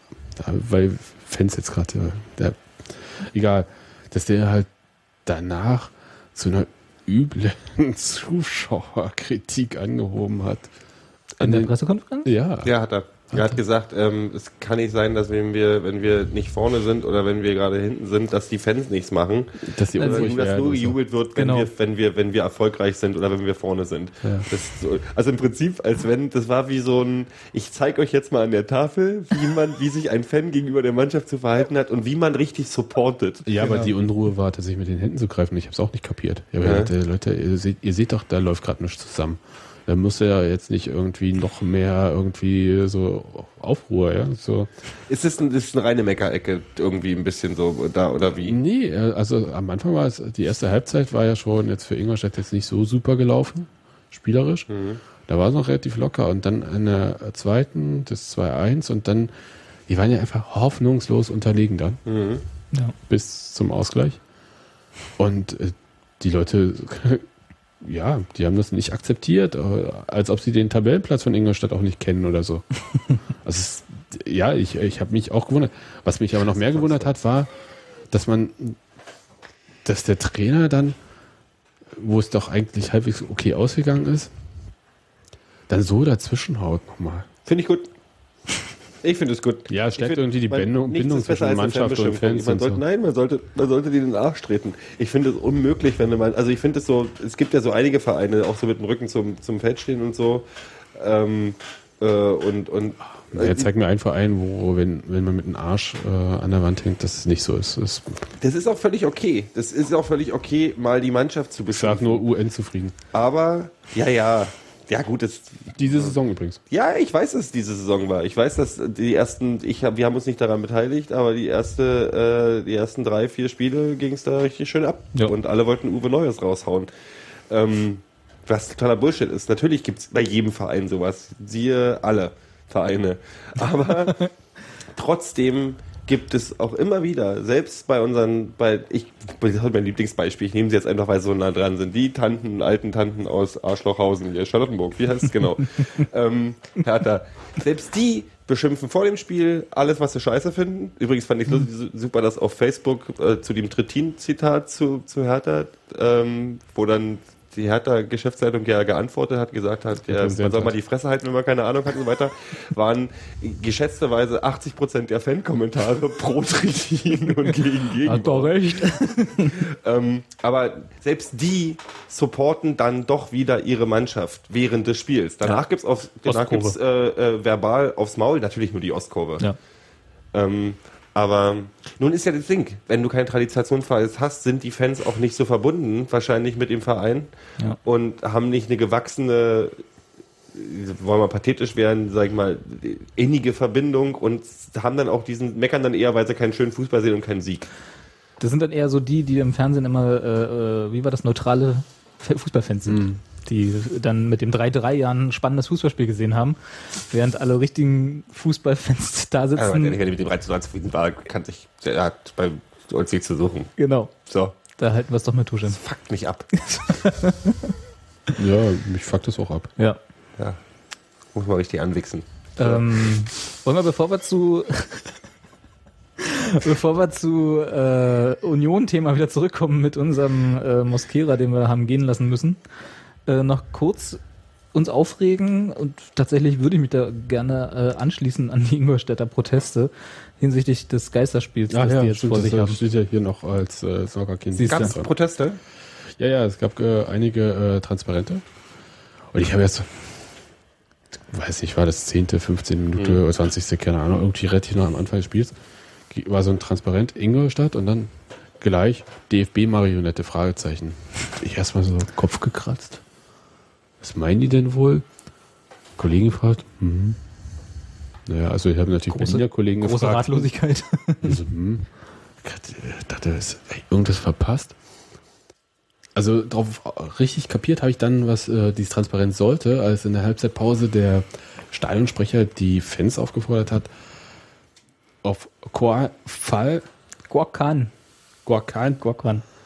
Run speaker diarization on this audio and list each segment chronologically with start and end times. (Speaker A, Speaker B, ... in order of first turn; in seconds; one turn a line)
Speaker A: 0.3-4.7
Speaker A: 5.2-10.7
Speaker A: 11.4-12.7
Speaker B: 11.4-12.3
Speaker C: 12.6-33.5
Speaker A: 19.6-21.0
Speaker B: 20.0-20.3
Speaker B: 21.4-21.7
Speaker A: 33.5-44.7
Speaker B: 33.6-33.9
Speaker C: 36.6-36.9
Speaker C: 45.1-48.6
Speaker A: 48.4-54.7
Speaker C: 54.7-55.0
Speaker A: 55.3-59.3
Speaker A: 59.9-62.0
Speaker C: 62.0-62.4
Speaker A: 63.1-64.2
Speaker A: 65.2-67.2
Speaker A: 67.8-72.7
Speaker A: 73.3-77.5
Speaker C: 76.6-77.1
Speaker A: 78.1-78.8
Speaker A: 79.8-81.0
Speaker A: 81.9-84.3
Speaker A: 85.7-87.3
Speaker C: 87.5-87.9
Speaker C: 89.0-103.7
Speaker A: 89.7-92.8
Speaker A: 103.3-108.2
Speaker C: 108.4-112.2
Speaker A: 111.7-112.9
Speaker C: 113.1-116.1
Speaker A: 115.8-116.6
Speaker C: 116.7-126.9
Speaker C: 127.5-134.3
Speaker C: 134.9-168.8
Speaker A: 160.0-160.8
Speaker B: 168.0-169.6
Speaker C: 169.7-179.4
Speaker B: 176.2-176.7
Speaker C: 180.3-189.8
Speaker C: 190.5-197.7
Speaker B: 198.4-210.0
Speaker A: 202.8-203.2
Speaker C: 209.6-213.7
Speaker B: 213.8-214.1
Speaker C: 214.2-214.5
Speaker B: 214.8-215.8
Speaker C: 215.7-216.5
Speaker B: 216.7-217.7
Speaker A: 218.3-219.7
Speaker C: 221.3-222.8
Speaker B: 222.6-225.1
Speaker B: 226.2-232.6
Speaker B: 233.2-234.2
Speaker B: 234.7-242.8
Speaker A: 241.7-245.1
Speaker B: 244.5-244.9
Speaker C: 244.6-245.6
Speaker A: 246.2-248.4
Speaker A: 249.3-249.9
Speaker A: 251.3-255.5
Speaker A: 256.1-263.0
Speaker A: 264.0-265.0
Speaker A: 266.0-267.2
Speaker A: 268.2-270.5
Speaker B: 269.1-271.4
Speaker A: 271.2-271.9
Speaker A: 272.4-274.7
Speaker A: 276.1-283.9
Speaker A: 285.2-286.9
Speaker B: 287.3-287.9
Speaker A: 288.4-289.0
Speaker B: 289.0-289.4